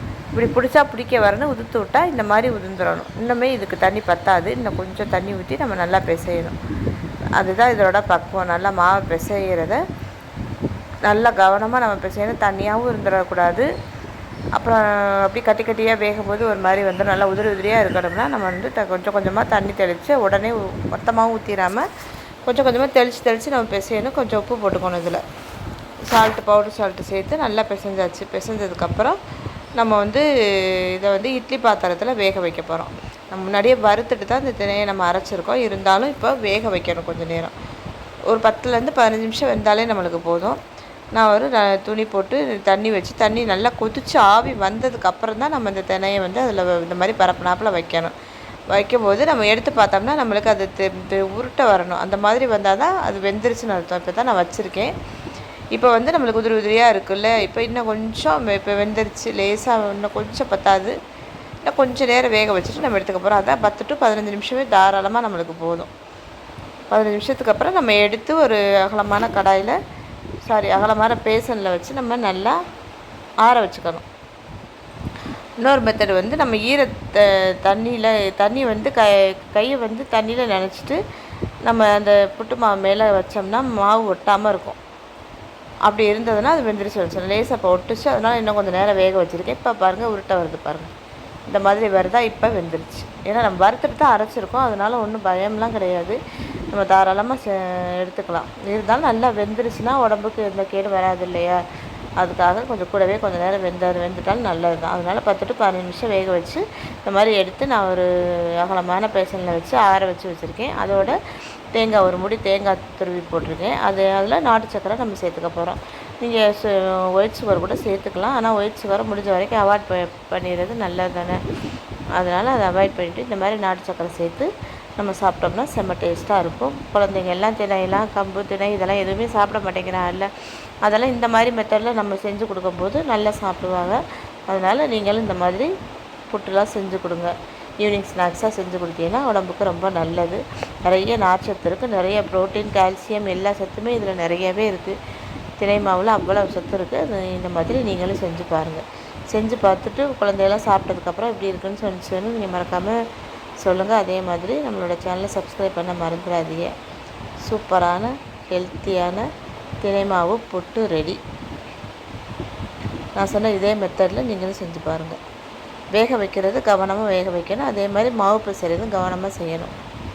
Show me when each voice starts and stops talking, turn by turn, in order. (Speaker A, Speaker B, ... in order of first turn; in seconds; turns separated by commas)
Speaker A: 0.3-6.6, Speaker A: 7.4-9.8, Speaker A: 11.1-13.7, Speaker A: 14.6-21.9, Speaker A: 22.4-25.2, Speaker A: 26.1-29.2, Speaker A: 29.8-37.5, Speaker A: 38.3-40.6, Speaker A: 41.1-48.1, Speaker A: 48.7-54.9, Speaker A: 55.7-61.0, Speaker A: 61.6-65.9, Speaker A: 66.9-69.8, Speaker A: 70.4-72.6, Speaker A: 73.4-74.0, Speaker A: 75.6-81.0, Speaker A: 81.7-84.8, Speaker A: 85.9-90.9, Speaker A: 91.5-96.2, Speaker A: 96.7-101.6, Speaker A: 102.2-111.2, Speaker A: 111.7-121.4, Speaker A: 122.2-130.3, Speaker A: 130.8-135.7, Speaker A: 136.3-145.0, Speaker A: 145.6-153.0, Speaker A: 153.6-156.7, Speaker A: 157.4-159.3, Speaker A: 159.8-161.2, Speaker A: 163.2-165.2, Speaker A: 165.9-169.7